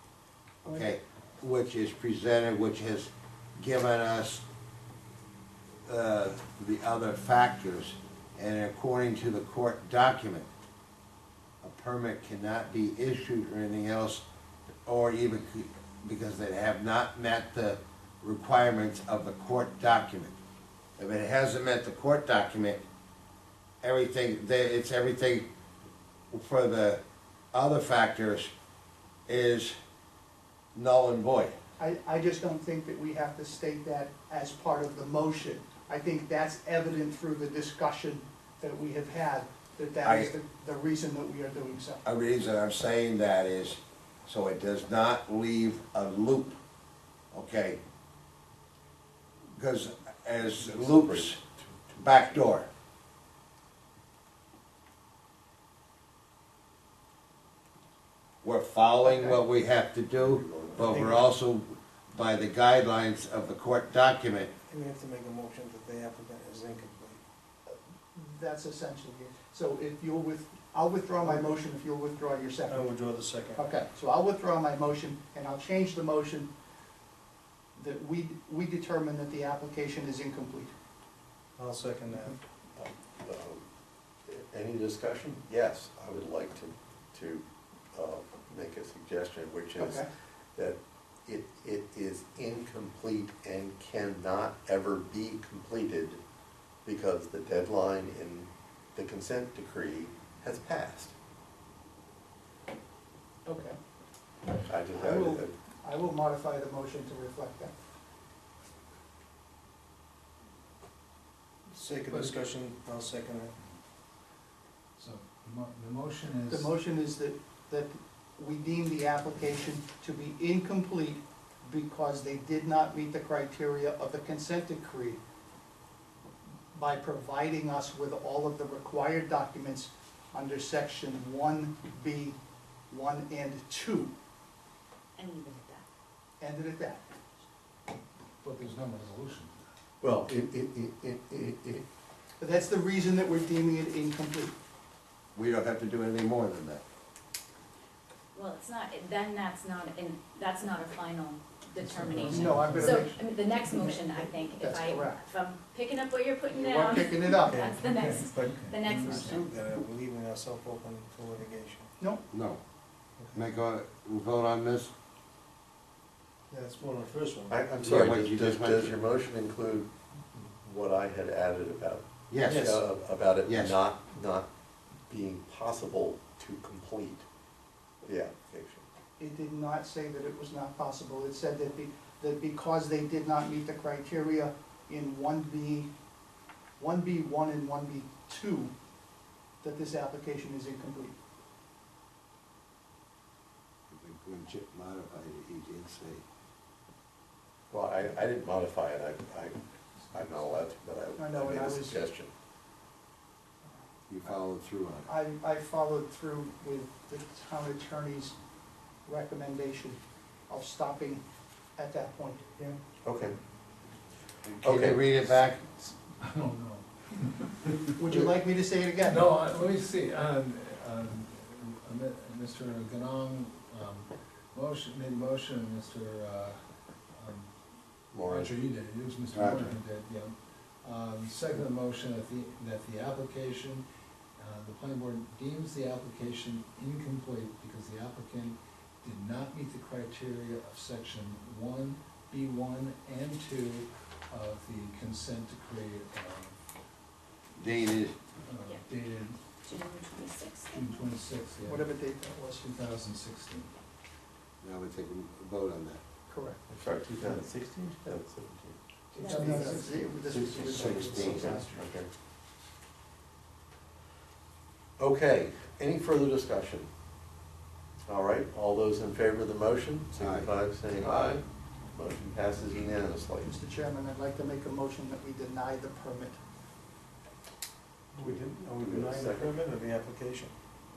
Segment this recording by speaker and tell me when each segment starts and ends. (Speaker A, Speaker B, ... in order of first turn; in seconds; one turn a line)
Speaker A: 0.7-0.9
Speaker B: 0.7-4.4
Speaker B: 5.8-10.5
Speaker B: 11.6-14.2
Speaker B: 14.9-20.3
Speaker B: 21.0-22.8
Speaker B: 23.8-25.5
Speaker B: 26.3-27.0
Speaker B: 27.5-28.5
Speaker B: 29.3-29.8
Speaker B: 30.7-31.6
Speaker A: 31.8-42.0
Speaker B: 40.0-40.3
Speaker B: 42.0-46.6
Speaker B: 47.3-47.8
Speaker B: 49.6-51.4
Speaker C: 50.5-52.6
Speaker B: 52.0-52.7
Speaker B: 58.4-64.5
Speaker A: 59.0-59.4
Speaker C: 60.1-60.8
Speaker D: 60.8-61.2
Speaker D: 64.7-67.2
Speaker A: 68.2-72.9
Speaker D: 71.2-71.6
Speaker D: 72.7-73.6
Speaker A: 73.6-76.5
Speaker A: 77.8-80.7
Speaker D: 81.6-82.4
Speaker C: 82.8-83.7
Speaker C: 84.3-96.2
Speaker A: 89.8-90.0
Speaker C: 96.8-101.1
Speaker A: 103.5-103.8
Speaker A: 104.5-107.7
Speaker C: 104.7-105.5
Speaker D: 111.7-113.5
Speaker E: 115.0-116.7
Speaker A: 116.5-125.2
Speaker A: 126.7-132.4
Speaker A: 132.9-134.1
Speaker F: 135.2-135.8
Speaker A: 136.4-137.0
Speaker E: 138.4-139.6
Speaker C: 140.0-141.9
Speaker A: 142.4-144.5
Speaker B: 145.3-146.8
Speaker F: 148.3-159.4
Speaker E: 151.9-153.1
Speaker A: 152.1-153.2
Speaker A: 153.7-155.2
Speaker A: 156.5-157.6
Speaker D: 157.4-161.9
Speaker E: 158.4-159.4
Speaker B: 162.3-162.6
Speaker B: 163.3-164.9
Speaker D: 166.5-167.6
Speaker C: 167.5-174.5
Speaker B: 167.8-168.9
Speaker B: 172.3-172.7
Speaker D: 172.4-172.8
Speaker B: 173.5-173.8
Speaker C: 175.1-177.2
Speaker C: 178.0-178.9
Speaker A: 179.2-185.9
Speaker A: 186.8-188.7
Speaker A: 189.6-191.2
Speaker B: 193.9-196.2
Speaker C: 197.7-199.6
Speaker C: 200.1-202.3
Speaker A: 201.2-202.0
Speaker B: 204.1-205.1
Speaker A: 205.1-208.3
Speaker A: 209.1-211.2
Speaker A: 211.8-212.6
Speaker C: 213.0-213.4
Speaker C: 214.6-215.1
Speaker B: 214.6-215.6
Speaker E: 215.8-218.1
Speaker A: 218.0-219.3
Speaker E: 219.0-226.6
Speaker E: 227.1-227.5
Speaker C: 228.1-228.6
Speaker E: 228.2-233.8
Speaker B: 229.3-229.8
Speaker E: 234.4-246.6
Speaker B: 247.6-248.2
Speaker E: 248.4-249.4
Speaker F: 249.6-251.1
Speaker E: 250.7-251.9
Speaker A: 251.6-252.7
Speaker E: 252.6-253.7
Speaker B: 254.6-256.0
Speaker A: 256.3-256.6
Speaker C: 256.7-258.8
Speaker E: 259.1-260.2
Speaker F: 259.2-259.9
Speaker A: 259.3-261.8
Speaker C: 259.4-262.1
Speaker E: 260.7-261.3
Speaker B: 260.7-261.4
Speaker C: 265.0-266.9
Speaker C: 268.1-273.5
Speaker B: 270.2-270.5
Speaker A: 271.0-271.3
Speaker A: 273.4-276.4
Speaker D: 278.1-280.5
Speaker C: 278.2-279.7